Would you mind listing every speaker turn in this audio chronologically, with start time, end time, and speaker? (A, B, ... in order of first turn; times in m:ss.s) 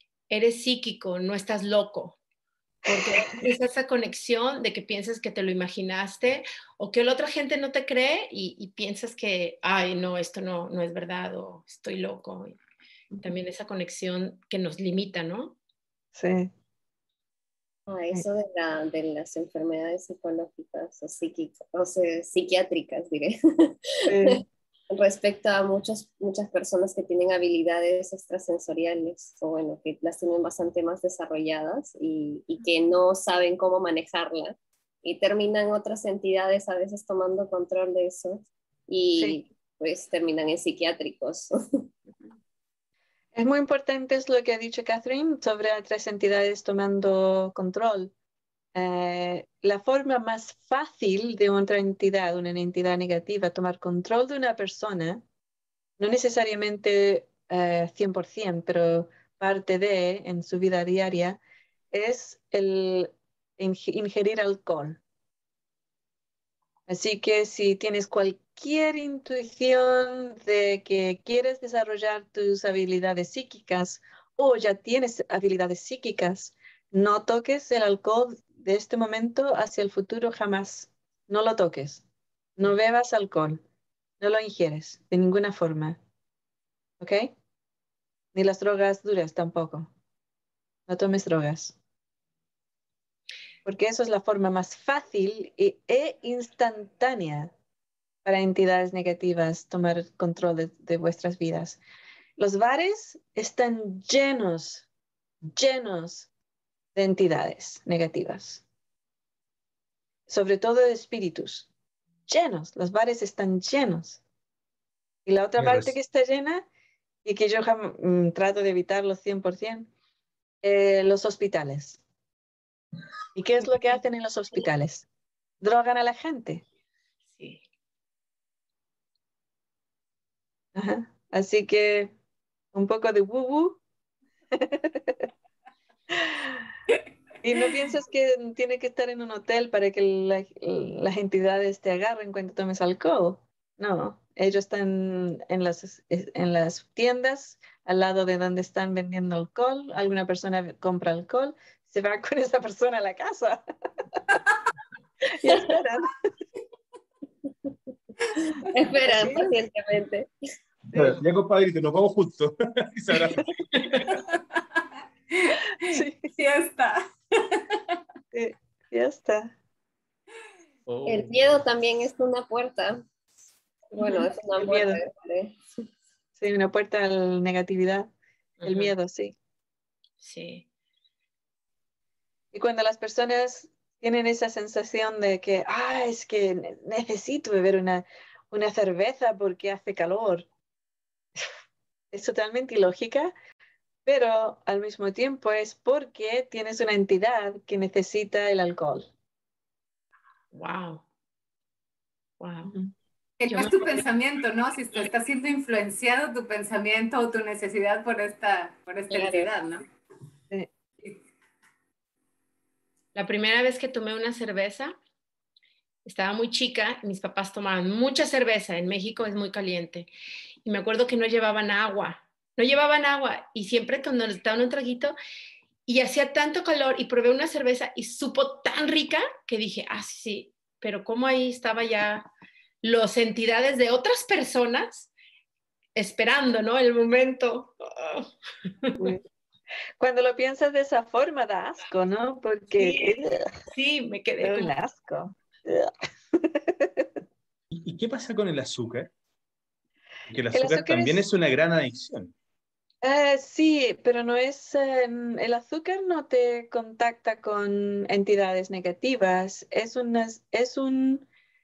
0:00.3-0:02.2 A
0:02.9-0:12.6 A
0:02.9-0:03.3 B
0:13.2-0:15.6 A
0:16.2-0:16.5 B
0:17.9-0:41.9 C
0:24.1-0:24.4 B
0:39.2-0:39.4 B
0:43.3-0:48.1 B
0:48.7-0:55.2 B
0:56.0-1:01.4 B
1:01.9-1:05.0 B
1:06.9-1:22.0 B
1:22.6-1:23.6 B
1:24.2-1:26.0 B
1:27.0-1:27.3 B
1:28.3-1:29.9 B
1:30.9-1:31.8 B
1:33.6-1:37.5 B
1:38.2-1:41.8 B
1:42.4-1:44.9 B
1:45.5-1:46.3 B
1:47.0-1:48.6 B
1:50.3-1:51.7 B
1:52.3-1:54.2 B
1:55.3-1:56.7 B
1:55.6-1:56.0 D
1:57.2-1:59.9 B
2:00.6-2:02.0 B
2:03.4-2:05.1 B
2:05.6-2:06.6 B
2:07.3-2:07.6 A
2:10.8-2:12.1 B
2:12.7-2:13.8 B
2:14.6-2:15.3 B
2:16.1-2:16.6 B
2:17.4-2:33.6 B
2:35.3-2:36.2 B
2:35.4-2:35.8 C
2:38.4-2:40.3 C
2:39.0-2:39.5 B
2:40.9-2:41.2 B
2:40.9-2:44.2 D
2:45.3-2:47.8 E
2:45.9-2:46.2 B
2:48.3-2:49.6 B
2:50.9-2:51.6 D
2:51.0-2:53.1 C
2:53.9-2:55.6 C
2:54.0-2:55.0 B
2:56.4-2:58.1 B
2:58.6-2:58.9 A
2:58.6-2:59.4 B
3:00.2-3:00.7 A
3:02.5-3:10.5 B
3:12.1-3:13.3 B
3:14.1-3:19.1 B
3:20.5-3:21.0 A
3:22.4-3:22.7 A
3:22.6-3:22.9 B
3:23.4-3:29.8 E
3:23.5-3:23.8 A
3:29.1-3:29.5 C
3:33.2-3:35.0 A
3:36.0-3:40.1 A
3:40.6-3:45.2 A
3:45.9-3:52.3 A
3:52.8-3:55.1 A
3:56.0-3:58.3 A
3:58.8-3:59.1 A
3:59.0-3:59.2 B
4:00.0-4:03.5 B
4:02.8-4:03.1 A
4:03.7-4:04.8 A
4:04.4-4:07.1 B
4:07.7-4:09.1 D
4:10.3-4:12.3 D
4:10.5-4:11.3 B
4:13.0-4:21.3 B